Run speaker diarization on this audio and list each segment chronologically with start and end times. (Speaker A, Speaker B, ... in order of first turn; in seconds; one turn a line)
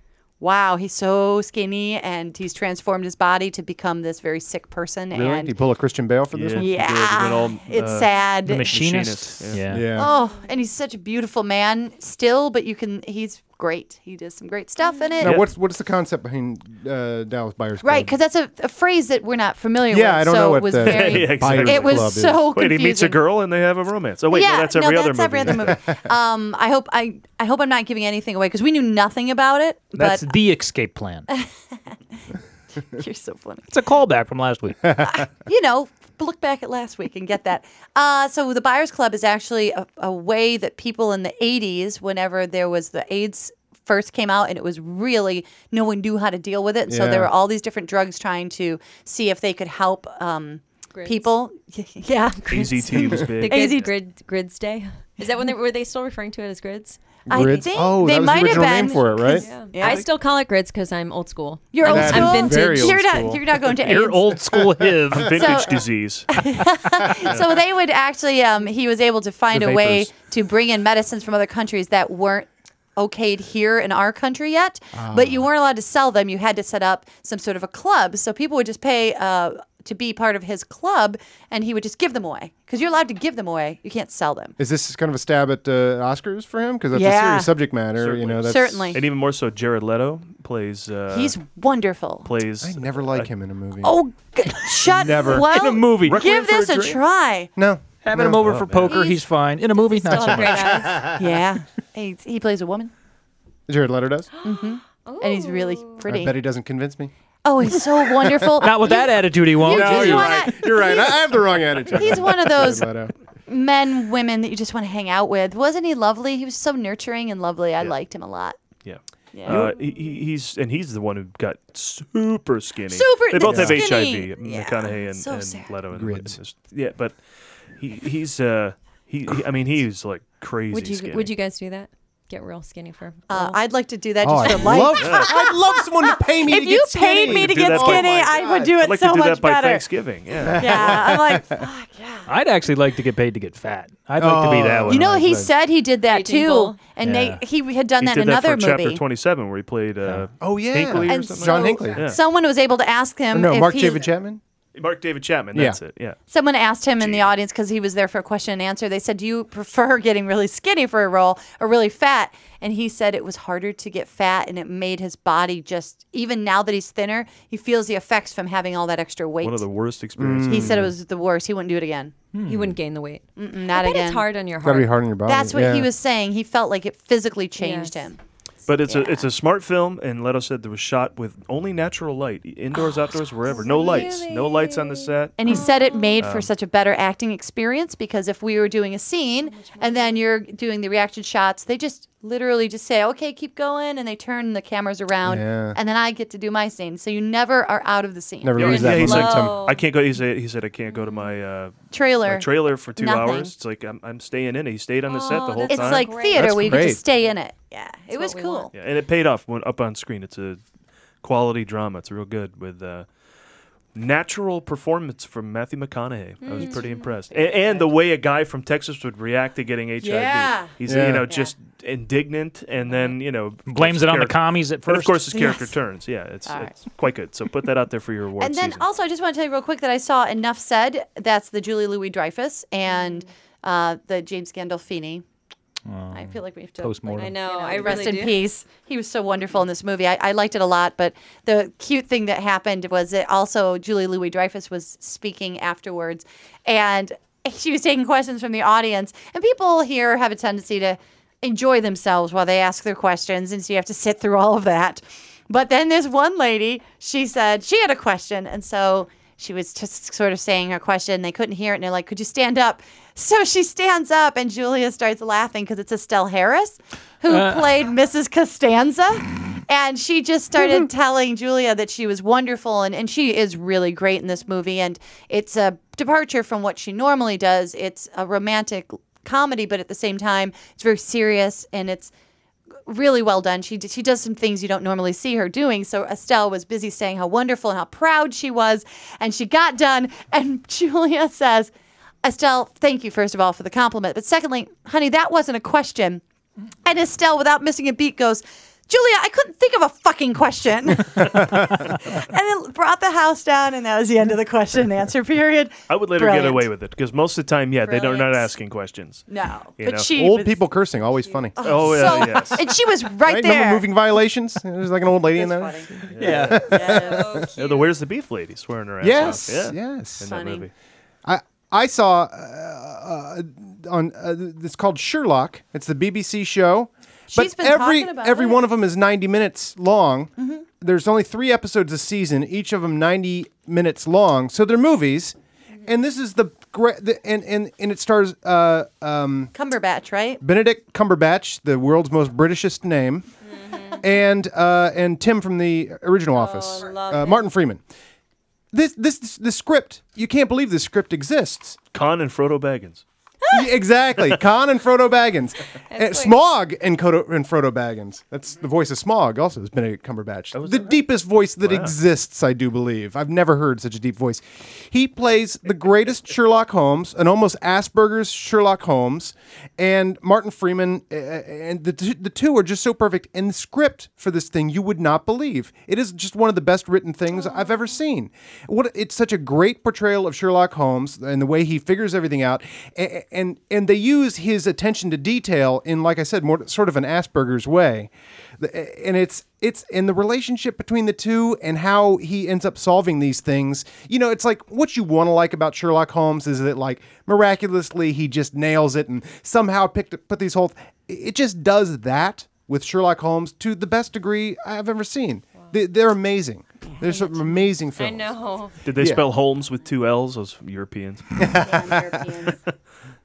Speaker A: 0.4-5.5
Speaker B: 5.1-6.8
Speaker C: 6.3-8.1
Speaker A: 6.6-8.7
Speaker D: 8.4-9.9
Speaker C: 8.7-9.6
Speaker B: 9.7-10.1
Speaker A: 10.0-15.4
Speaker E: 10.1-10.5
Speaker E: 14.8-15.2
Speaker B: 15.2-18.1
Speaker A: 17.8-23.2
Speaker B: 19.9-22.5
Speaker C: 20.8-25.8
Speaker A: 24.3-30.3
Speaker B: 25.5-26.0
Speaker D: 29.9-31.3
Speaker A: 32.9-33.7
Speaker D: 33.7-34.9
Speaker B: 34.8-35.2
Speaker A: 35.0-53.9
Speaker B: 46.9-47.3
Speaker E: 50.9-51.3
Speaker E: 52.1-57.4
Speaker C: 52.5-53.9
Speaker B: 57.3-59.5
Speaker A: 57.3-60.0
Speaker E: 59.3-63.0
Speaker C: 59.7-60.0
Speaker A: 61.7-64.3
Speaker B: 61.8-63.6
Speaker D: 63.8-65.4
Speaker B: 64.5-65.2
Speaker C: 65.1-66.3
Speaker A: 65.3-84.5
Speaker B: 69.5-70.1
Speaker B: 74.9-75.5
Speaker B: 84.6-89.0
Speaker A: 86.9-87.5
Speaker C: 88.0-91.3
Speaker A: 88.5-89.0
Speaker A: 91.1-92.3
Speaker C: 92.2-93.3
Speaker B: 92.6-94.0
Speaker A: 93.8-97.5
Speaker B: 94.8-97.0
Speaker D: 95.5-96.2
Speaker B: 97.5-98.5
Speaker D: 98.0-100.8
Speaker C: 98.4-98.9
Speaker A: 98.9-99.2
Speaker E: 99.7-101.1
Speaker A: 100.1-102.9
Speaker B: 100.8-101.2
Speaker B: 103.7-104.3
Speaker E: 104.3-106.0
Speaker A: 104.4-106.3
Speaker B: 106.0-107.1
Speaker A: 107.4-112.9
Speaker D: 108.6-110.4
Speaker B: 109.6-113.1
Speaker A: 113.5-118.5
Speaker C: 118.8-127.2
Speaker A: 119.3-119.8
Speaker B: 119.5-119.7
Speaker A: 122.9-125.7
Speaker B: 123.4-123.8
Speaker B: 125.9-126.4
Speaker C: 127.8-131.3
Speaker E: 130.7-133.6
Speaker A: 133.3-139.8
Speaker B: 134.2-138.8
Speaker C: 135.0-135.3
Speaker C: 137.2-140.9
Speaker B: 140.4-141.6
Speaker A: 140.5-142.3
Speaker D: 142.3-145.5
Speaker B: 144.2-145.2
Speaker A: 144.9-149.0
Speaker E: 146.0-146.8
Speaker D: 147.0-147.4
Speaker C: 148.0-152.2
Speaker B: 150.4-152.0
Speaker A: 151.1-154.1
Speaker B: 153.3-154.4
Speaker C: 154.7-156.2
Speaker B: 155.5-155.8
Speaker A: 156.3-169.7
Speaker C: 157.0-157.3
Speaker C: 169.4-170.8
Speaker B: 170.2-170.9
Speaker A: 170.5-172.1
Speaker D: 172.3-172.8
Speaker E: 172.4-175.0
Speaker A: 173.3-174.3
Speaker B: 174.6-175.9
Speaker A: 175.3-178.2
Speaker E: 177.6-178.1
Speaker C: 178.7-185.3
Speaker A: 178.9-179.3
Speaker E: 182.9-186.2
Speaker A: 183.8-184.2
Speaker A: 185.4-199.1
Speaker C: 186.2-186.5
Speaker E: 189.4-190.2
Speaker B: 195.2-195.8
Speaker B: 198.4-199.6
Speaker C: 198.6-206.2
Speaker E: 198.6-199.8
Speaker E: 200.9-201.3
Speaker A: 201.9-203.5
Speaker E: 205.1-206.8
Speaker A: 205.7-208.7
Speaker B: 206.3-207.0
Speaker E: 208.1-208.7
Speaker C: 208.7-210.6
Speaker C: 211.2-213.1
Speaker C: 213.9-228.8
Speaker E: 216.4-217.6
Speaker A: 216.5-217.9
Speaker A: 220.0-220.7
Speaker B: 220.8-221.3
Speaker E: 222.9-223.1
Speaker D: 223.7-225.2
Speaker A: 225.3-225.7
Speaker A: 226.5-226.8
Speaker A: 228.4-235.2
Speaker E: 232.9-233.2
Speaker D: 235.8-237.3
Speaker A: 236.1-282.1
Speaker E: 237.1-238.4
Speaker D: 267.3-267.7
Speaker A: 282.9-291.7
Speaker A: 292.2-296.2
Speaker A: 296.8-306.7
Speaker B: 301.2-301.8
Speaker C: 305.9-310.1
Speaker A: 307.8-308.5
Speaker A: 309.3-310.7
Speaker B: 310.1-312.2
Speaker A: 311.6-313.9
Speaker C: 311.6-312.6
Speaker B: 313.2-317.5
Speaker A: 315.3-316.0
Speaker C: 316.1-316.6
Speaker D: 316.2-316.7
Speaker A: 316.7-317.5
Speaker E: 316.8-317.9
Speaker C: 317.5-320.7
Speaker B: 319.0-320.3
Speaker A: 320.2-320.7
Speaker B: 321.2-339.5
Speaker A: 327.3-328.6
Speaker A: 330.4-330.6
Speaker A: 339.5-340.4
Speaker B: 340.4-343.3
Speaker E: 343.4-344.0
Speaker B: 344.0-347.8
Speaker E: 346.3-347.5
Speaker B: 348.7-351.8
Speaker C: 351.9-353.0
Speaker E: 353.4-353.7
Speaker B: 353.5-409.3
Speaker E: 355.9-356.4
Speaker C: 360.5-361.0
Speaker C: 361.6-361.9
Speaker E: 406.9-408.8
Speaker C: 408.8-411.5
Speaker B: 411.4-412.2
Speaker A: 411.6-412.6